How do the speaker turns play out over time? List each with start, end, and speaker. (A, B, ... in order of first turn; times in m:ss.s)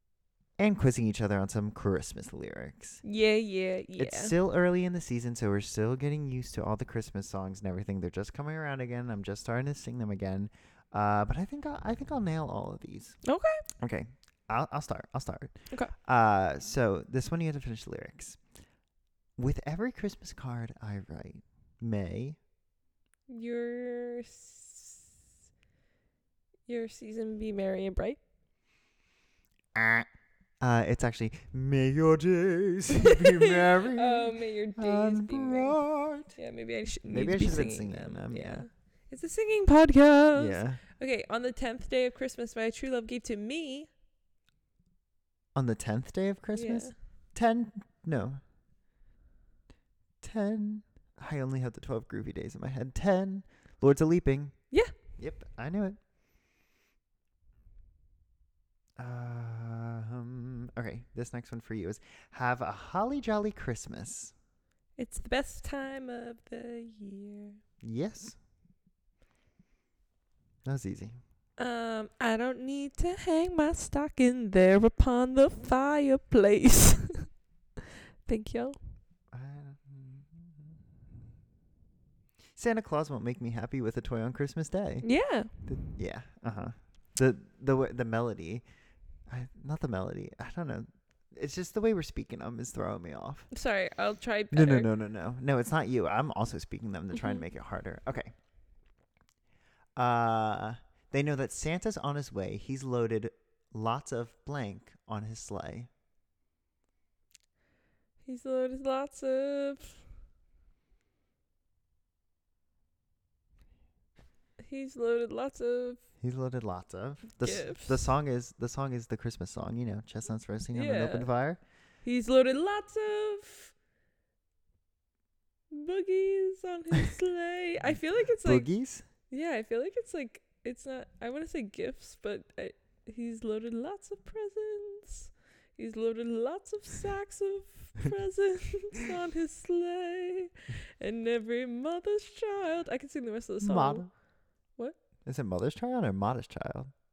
0:00.6-0:03.0 A
0:03.0-0:04.4 B
0:04.0-0:13.2 A
0:13.2-0:13.6 B
0:13.8-0:18.6 A
0:19.4-0:22.4 A
0:23.3-0:25.1 B
0:26.7-0:28.2 B
0:29.8-0:30.1 A
0:30.6-0:36.4 A
0:33.9-0:43.9 B
0:37.0-0:38.7 A
0:40.3-0:40.8 A
0:45.6-0:48.4 A
0:46.5-0:47.0 B
0:50.2-0:56.0 A
0:59.0-1:04.4 A
1:05.0-1:07.6 B
1:07.8-1:08.4 A
1:10.6-1:11.2 A
1:11.6-1:17.4 B
1:18.2-1:18.9 B
1:19.3-1:20.7 A
1:22.6-1:28.6 A
1:25.0-1:25.8 B
1:29.2-1:33.5 A
1:33.5-1:34.9 B
1:34.5-1:38.3 A
1:37.1-1:37.4 B
1:40.0-1:45.9 A
1:48.2-1:50.0 B
1:54.6-1:56.0 B
1:56.2-2:01.6 A
1:57.4-1:58.1 B
2:00.7-2:01.5 B
2:02.0-2:03.8 B
2:05.7-2:25.0 B
2:07.8-2:09.0 A
2:23.6-2:24.1 A
2:25.2-2:26.9 A